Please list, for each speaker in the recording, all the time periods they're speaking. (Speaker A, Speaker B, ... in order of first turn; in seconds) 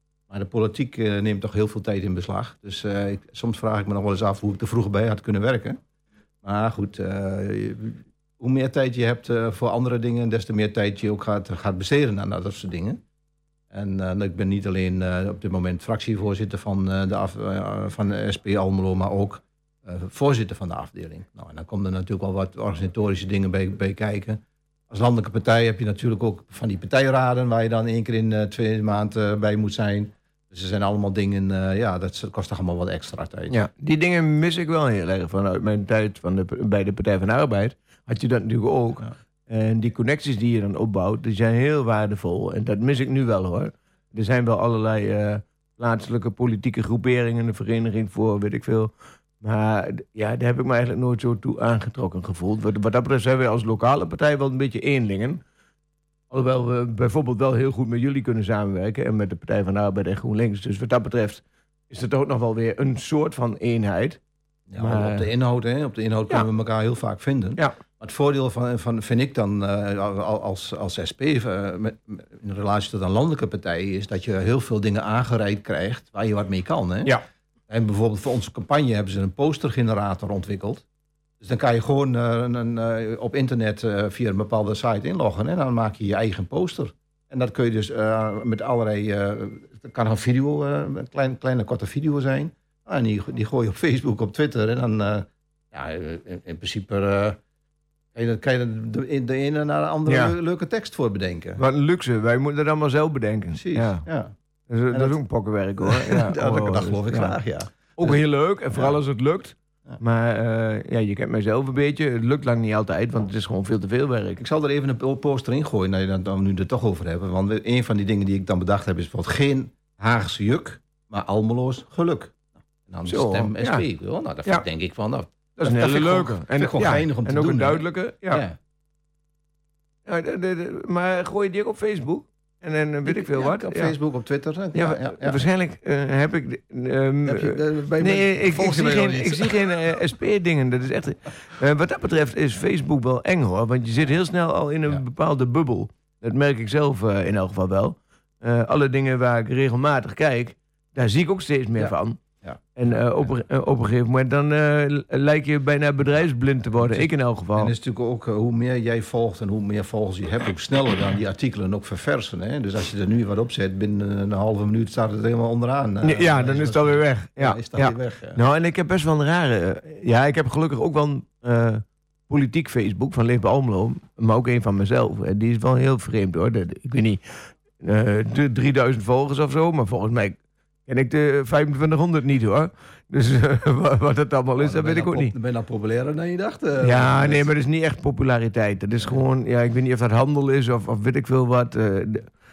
Speaker A: 0.3-5.8, 6.4-13.0, 13.7-33.6, 64.7-80.8, 81.4-97.4, 98.1-101.6, 103.5-104.3, 104.9-105.2, 105.8-108.2, 114.4-128.6, 133.0-135.4, 137.2-140.0, 151.8-153.3, 156.7-168.4, 184.6-187.5
Speaker B: 33.5-55.4, 56.3-64.2, 64.8-65.3, 100.1-100.4, 101.6-104.0, 104.7-107.4, 108.0-114.4, 123.0-123.8, 125.6-128.4, 130.1-133.9, 134.7-152.2, 152.8-157.7, 166.0-185.3, 186.8-192.3